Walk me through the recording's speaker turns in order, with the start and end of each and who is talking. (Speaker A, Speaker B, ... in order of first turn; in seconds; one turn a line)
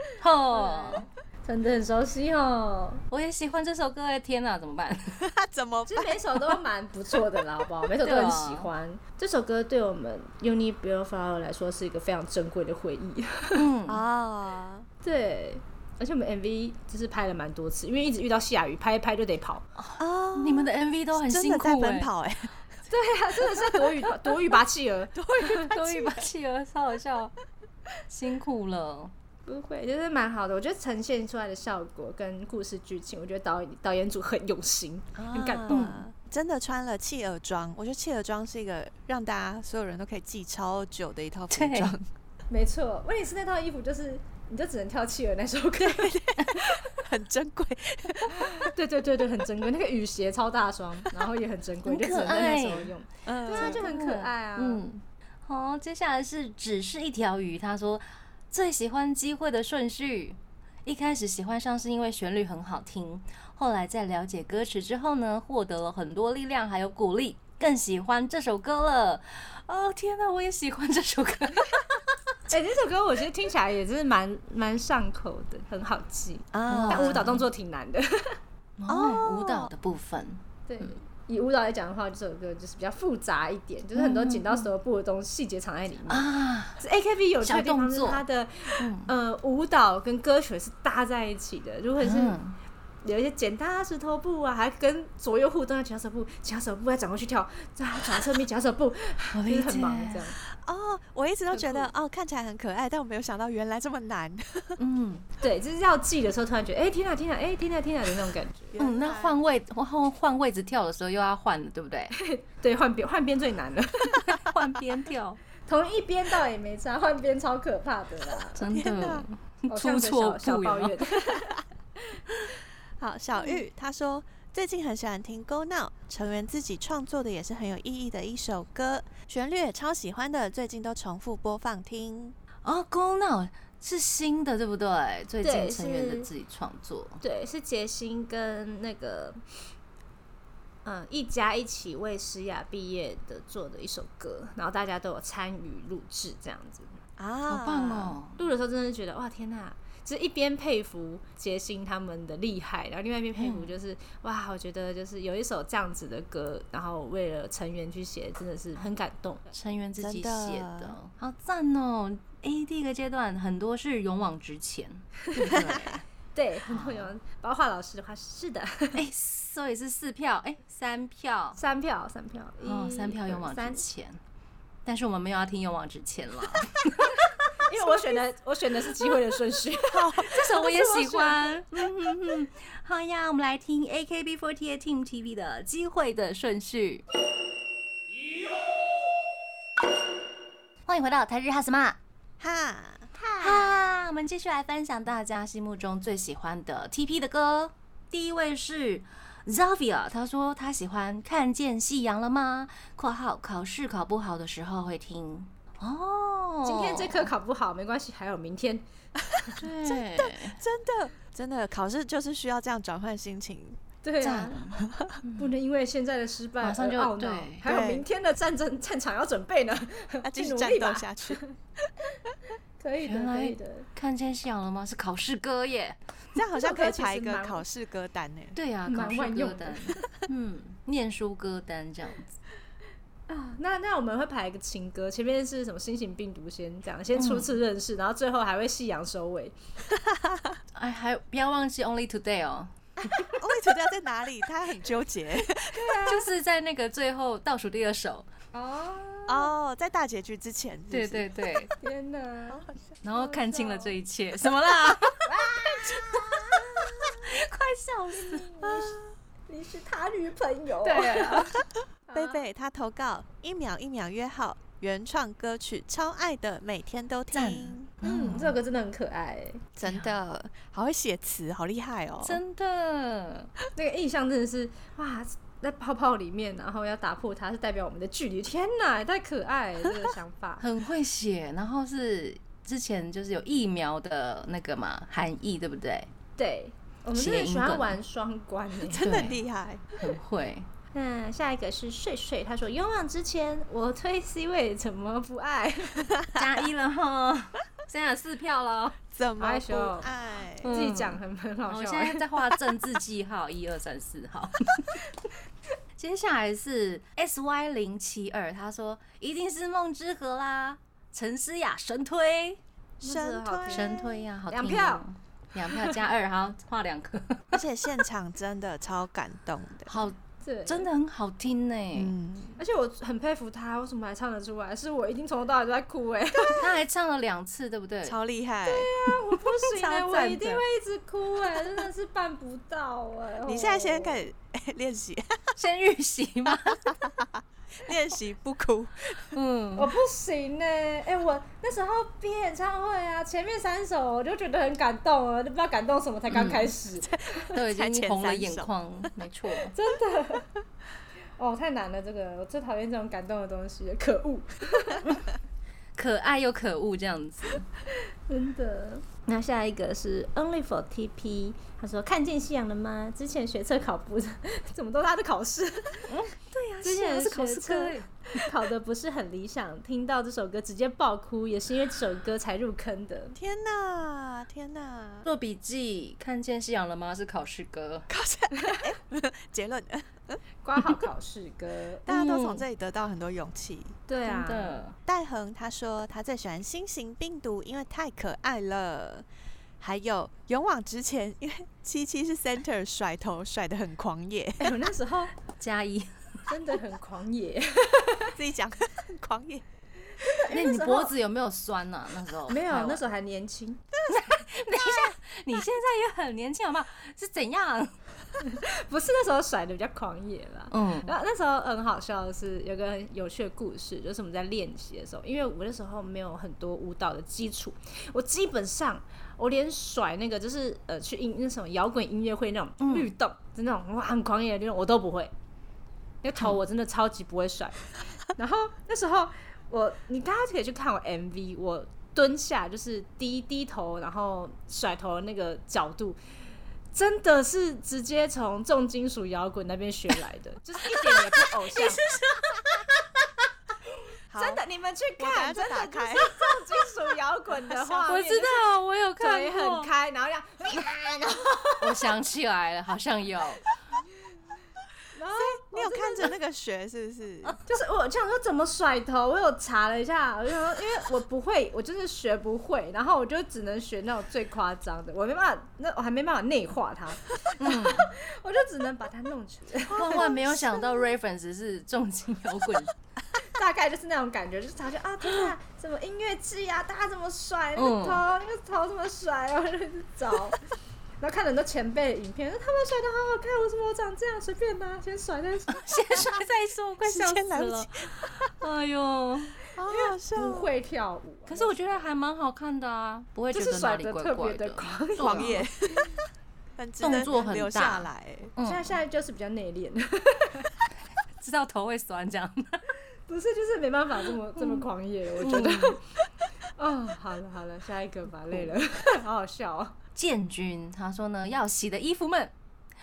Speaker A: 0.2-1.1
Speaker B: 0.5-3.0
Speaker A: 3.1-5.2
Speaker C: 5.2-6.5
Speaker B: 5.9-13.6
Speaker A: 8.0-8.7
Speaker A: 13.5-14.0
Speaker C: 13.9-14.9
Speaker B: 15.0-19.7
Speaker A: 19.8-22.1
Speaker C: 20.0-22.5
Speaker B: 22.9-25.7
Speaker C: 23.6-23.8
Speaker C: 25.1-26.2
Speaker A: 25.7-27.3
Speaker A: 28.1-29.1
Speaker B: 29.4-36.0
Speaker C: 35.1-42.1
Speaker A: 35.7-36.0
Speaker A: 41.5-41.9
Speaker B: 42.5-46.8
Speaker C: 45.8-48.7
Speaker B: 48.3-54.8
Speaker A: 51.9-52.9
Speaker C: 53.2-53.9
Speaker A: 53.5-71.9
Speaker B: 72.5-78.4
Speaker C: 76.5-77.3
Speaker A: 76.7-77.5
Speaker A: 78.8-80.9
Speaker C: 78.9-79.7
Speaker B: 80.7-86.3
Speaker A: 83.9-84.7
Speaker A: 86.1-86.8
Speaker B: 86.8-92.4
Speaker A: 87.4-88.2
Speaker A: 88.8-89.1
Speaker A: 92.0-92.6
Speaker B: 93.0-100.4
Speaker A: 99.3-100.2
Speaker C: 100.5-104.8
Speaker B: 101.5-101.9
Speaker A: 104.8-105.3
Speaker B: 105.4-108.7
Speaker C: 108.7-109.4
Speaker A: 108.8-112.1
Speaker B: 112.1-114.3
Speaker A: 114.2-115.4
Speaker B: 115.7-118.6
Speaker A: 118.5-121.0
Speaker C: 118.6-119.2
Speaker B: 119.7-122.2
Speaker C: 123.0-132.3
Speaker A: 132.6-137.2
Speaker B: 135.4-136.3
Speaker B: 137.2-139.4
Speaker B: 140.8-146.9
Speaker C: 147.2-148.2
Speaker A: 147.5-148.4
Speaker B: 148.4-159.5
Speaker A: 153.4-153.7
Speaker A: 159.5-166.0
Speaker C: 160.0-160.9
Speaker C: 165.5-166.0
Speaker B: 166.3-169.0
Speaker A: 166.7-167.1
Speaker A: 168.9-171.6
Speaker B: 171.6-173.9
Speaker A: 172.6-174.2
Speaker A: 174.8-177.1
Speaker B: 177.6-181.5
Speaker C: 179.9-180.3
Speaker A: 180.2-187.0
Speaker A: 190.9-192.0
Speaker C: 192.4-193.1
Speaker B: 193.2-193.7
Speaker A: 193.4-207.3
Speaker B: 206.6-208.8
Speaker A: 209.6-210.6
Speaker C: 209.8-213.8
Speaker B: 214.0-214.6
Speaker A: 214.2-215.5
Speaker C: 214.8-215.2
Speaker B: 215.4-223.9
Speaker A: 216.6-217.6
Speaker C: 217.6-218.0
Speaker C: 220.2-221.4
Speaker A: 223.0-226.0
Speaker C: 226.3-228.6
Speaker B: 226.5-227.6
Speaker A: 228.5-232.4
Speaker B: 228.9-230.0
Speaker B: 233.3-239.6
Speaker A: 237.2-237.5
Speaker C: 239.9-240.6
Speaker A: 240.7-243.1
Speaker C: 243.4-246.0
Speaker B: 245.7-246.3
Speaker A: 246.1-248.3
Speaker B: 248.5-249.5
Speaker C: 249.3-251.2
Speaker A: 250.9-251.7
Speaker B: 251.8-253.9
Speaker A: 253.0-255.3
Speaker B: 255.2-257.1
Speaker A: 256.8-258.4
Speaker B: 258.1-261.5
Speaker C: 258.6-259.0
Speaker A: 260.8-261.6
Speaker B: 262.1-262.4
Speaker C: 262.1-267.9
Speaker A: 267.3-268.6
Speaker B: 268.0-269.6
Speaker C: 269.8-272.4
Speaker A: 269.8-270.1
Speaker A: 272.2-273.5
Speaker B: 273.7-280.6
Speaker A: 280.6-286.1
Speaker B: 286.4-289.1
Speaker A: 287.1-288.0
Speaker C: 288.9-290.1
Speaker A: 289.0-289.4
Speaker A: 289.9-290.7
Speaker B: 290.9-296.1
Speaker A: 296.3-299.0
Speaker C: 299.1-300.8
Speaker B: 299.4-300.1
Speaker A: 300.6-305.0
Speaker B: 300.6-302.5
Speaker A: 306.0-312.6
Speaker B: 313.0-315.0
Speaker C: 313.0-314.0
Speaker A: 313.7-317.6
Speaker C: 317.5-319.9
Speaker A: 319.9-322.1
Speaker B: 320.4-320.9
Speaker C: 321.9-322.6
Speaker B: 322.6-326.7
Speaker A: 326.6-328.2
Speaker C: 328.0-328.9
Speaker B: 328.6-334.3
Speaker A: 329.3-330.6
Speaker C: 333.4-335.6
Speaker A: 335.6-337.0
Speaker C: 336.6-339.3
Speaker A: 339.3-339.9
Speaker B: 339.8-347.6
Speaker A: 346.3-346.7
Speaker C: 347.0-349.0
Speaker A: 347.5-349.7
Speaker B: 349.7-350.5
Speaker B: 351.4-355.1
Speaker A: 355.9-357.6
Speaker B: 358.3-366.2
Speaker A: 366.1-368.5
Speaker B: 366.8-373.3
Speaker C: 373.3-375.3
Speaker A: 375.2-378.1
Speaker C: 378.1-380.4
Speaker B: 380.6-382.0
Speaker C: 382.1-383.9
Speaker A: 382.1-382.6
Speaker B: 384.1-384.8
Speaker A: 384.2-384.9
Speaker C: 385.1-389.2
Speaker C: 389.8-394.8
Speaker B: 394.6-395.3
Speaker A: 395.6-396.4
Speaker B: 396.5-398.4
Speaker C: 398.3-399.6
Speaker B: 400.2-401.1
Speaker A: 400.5-403.0
Speaker B: 402.5-404.0
Speaker A: 404.1-408.0
Speaker B: 408.4-425.3
Speaker A: 410.7-411.1
Speaker A: 422.8-423.1
Speaker B: 426.2-436.2
Speaker B: 436.9-442.1
Speaker A: 441.8-442.4
Speaker C: 444.3-444.6
Speaker B: 444.3-448.7
Speaker C: 445.2-446.6
Speaker C: 447.7-448.0
Speaker A: 448.1-449.9
Speaker B: 449.2-452.1
Speaker A: 451.8-453.6
Speaker B: 455.1-456.3
Speaker C: 455.3-457.6
Speaker B: 457.7-470.6
Speaker A: 467.6-468.1
Speaker A: 469.9-472.9
Speaker C: 470.0-470.4
Speaker B: 473.4-480.6
Speaker A: 477.8-478.2
Speaker B: 481.2-485.9
Speaker A: 485.7-489.6
Speaker C: 487.0-488.4
Speaker C: 489.7-490.7
Speaker B: 489.9-492.1
Speaker A: 491.5-495.7
Speaker B: 493.5-495.6
Speaker C: 495.2-496.2
Speaker C: 496.8-498.5
Speaker A: 497.0-499.0
Speaker B: 498.6-500.7
Speaker A: 501.4-502.9
Speaker B: 503.3-506.0
Speaker A: 504.6-504.8
Speaker A: 505.4-506.0
Speaker B: 506.8-509.9
Speaker A: 510.1-512.5